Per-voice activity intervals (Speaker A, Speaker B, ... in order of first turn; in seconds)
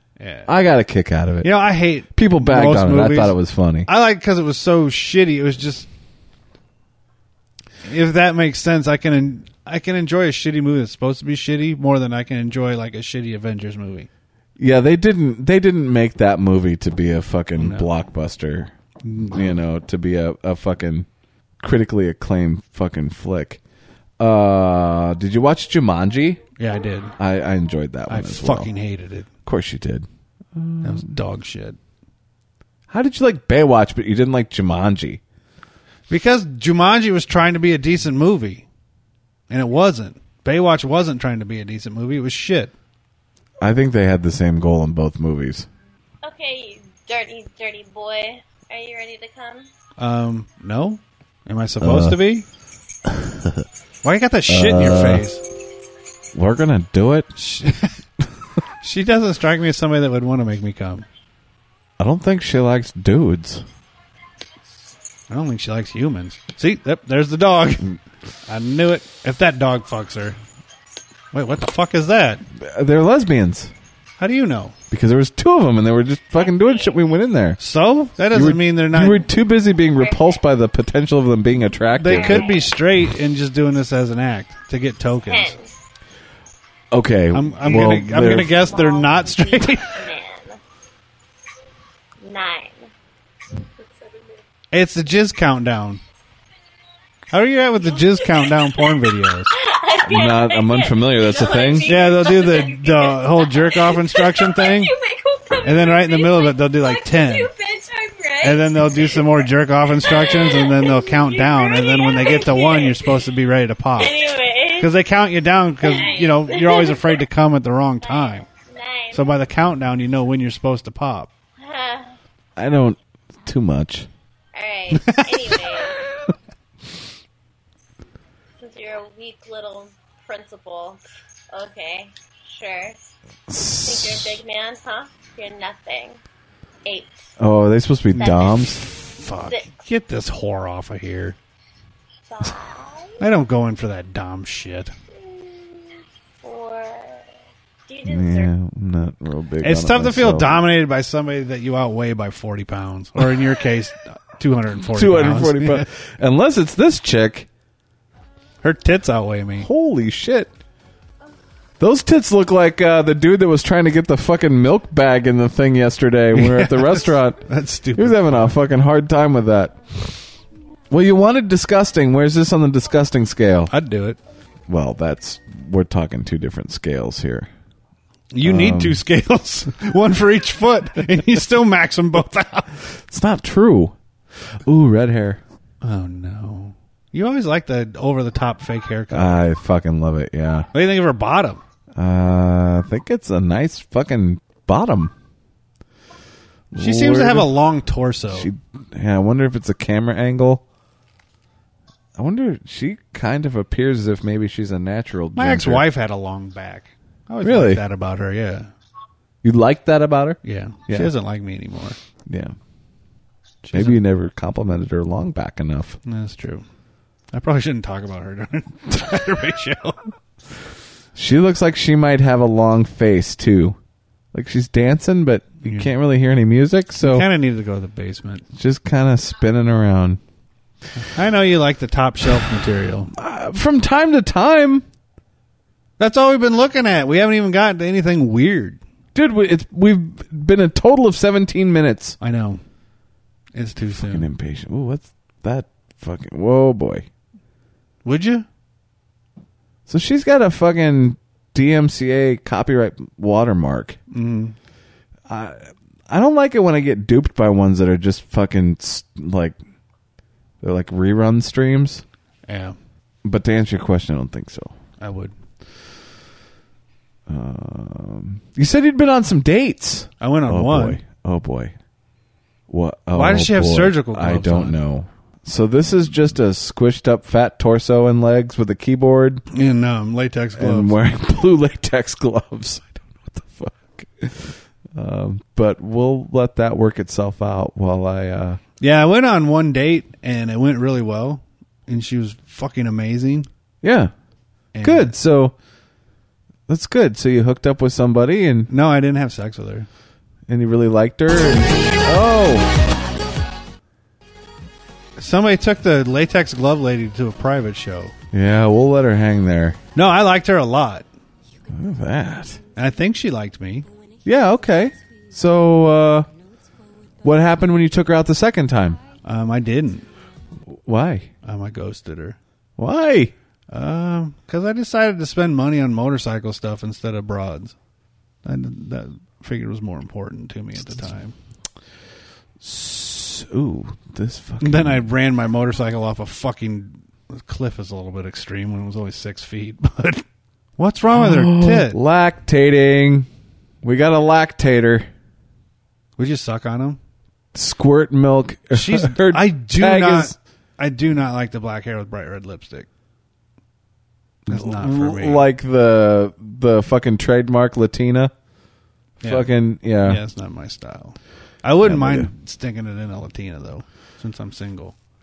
Speaker A: 0.2-0.5, 1.4-5.9, 7.8-14.1, 17.6-17.9, 19.1-19.4, 26.6-27.1, 28.1-29.3, 30.8-31.8, 36.1-38.7, 39.5-42.7, 50.0-52.5, 54.0-55.4, 57.4-58.0, 58.8-61.1, 65.3-70.4, 71.3-72.4, 74.2-74.8, 77.6-79.3, 82.0-85.6, 87.3-90.0, 94.7-96.0, 97.3-99.5, 101.9-104.9, 105.6-107.5, 108.4-114.2, 114.8-118.5, 119.1-121.3, 125.0-125.6, 138.2-141.4, 143.2-144.9, 149.6-155.9, 158.6-159.7, 166.3-168.5, 173.7-174.2, 178.3-182.7, 185.8-189.4, 190.7-191.6, 196.8-198.5, 205.4-208.7, 210.4-212.0, 213.6-214.0, 216.1-216.7, 217.3-220.1, 225.6-225.9, 227.0-228.4, 231.0-233.1, 236.0-238.8, 242.2-242.6, 243.5-244.3, 248.1-248.5, 254.1-254.6, 262.5-262.8, 265.0-265.4, 270.2-271.0, 273.1-274.8, 279.5-281.0, 288.8-293.5, 294.7-295.2, 298.7-299.9, 305.2-308.1, 309.9-311.1, 312.8-313.9, 319.2-320.1, 321.4-322.4, 323.7-327.7, 328.4-331.4, 334.6-340.2, 340.8-342.0, 346.2-347.0, 348.7-352.9, 354.5-355.4, 359.2-359.5, 360.0-365.0
Speaker B: 0.5-1.5, 2.1-3.9, 14.6-21.1, 21.6-23.6, 24.2-26.4, 27.2-28.7, 29.4-31.1, 32.9-35.2, 43.6-45.7, 51.8-52.2, 53.1-53.6, 54.5-55.2, 56.3-57.3, 62.0-63.6, 72.6-73.7, 74.9-77.6, 78.3-82.6, 86.9-88.7, 100.0-102.0, 122.6-124.1, 133.5-134.4, 137.4-138.8, 148.0-150.6, 154.9-157.5, 159.6-160.5, 161.8-167.4, 167.9-170.1, 170.9-173.7, 174.7-177.5, 178.4-179.0, 183.0-183.9, 184.5-185.4, 189.1-190.7, 192.0-195.1, 196.7-197.5, 198.3-200.6, 202.2-205.9, 207.4-207.8, 209.4-211.1, 212.3-212.6, 213.7-216.0, 221.2-223.8, 224.3-227.3, 228.6-230.2, 233.2-234.8, 239.2-242.2, 244.0-247.1, 249.9-254.0, 255.3-259.6, 260.6-262.0, 263.2-264.7, 267.3-271.8, 272.7-279.4, 280.6-288.6, 293.8-294.1, 294.8-295.5, 296.7-298.7, 300.5-302.7, 308.3-309.8, 311.7-312.6, 314.2-316.3, 317.2-319.0, 320.7-321.3, 322.8-323.3, 332.6-335.1, 341.1-343.3, 343.8-345.1, 347.5-350.4, 354.5-358.3, 359.2-360.2, 361.8-362.3
Speaker C: 46.2-49.7, 76.4-77.0, 80.0-80.4, 82.1-82.7, 85.3-85.7, 88.3-90.6, 92.2-92.9, 99.5-109.5, 110.0-113.1, 114.0-114.9, 115.8-117.2, 118.0-119.3, 121.6-122.2, 124.5-126.0, 128.6-131.0, 131.5-133.0, 133.8-136.2, 136.8-137.2, 138.2-139.7, 142.3-143.2, 145.1-147.3, 147.9-148.5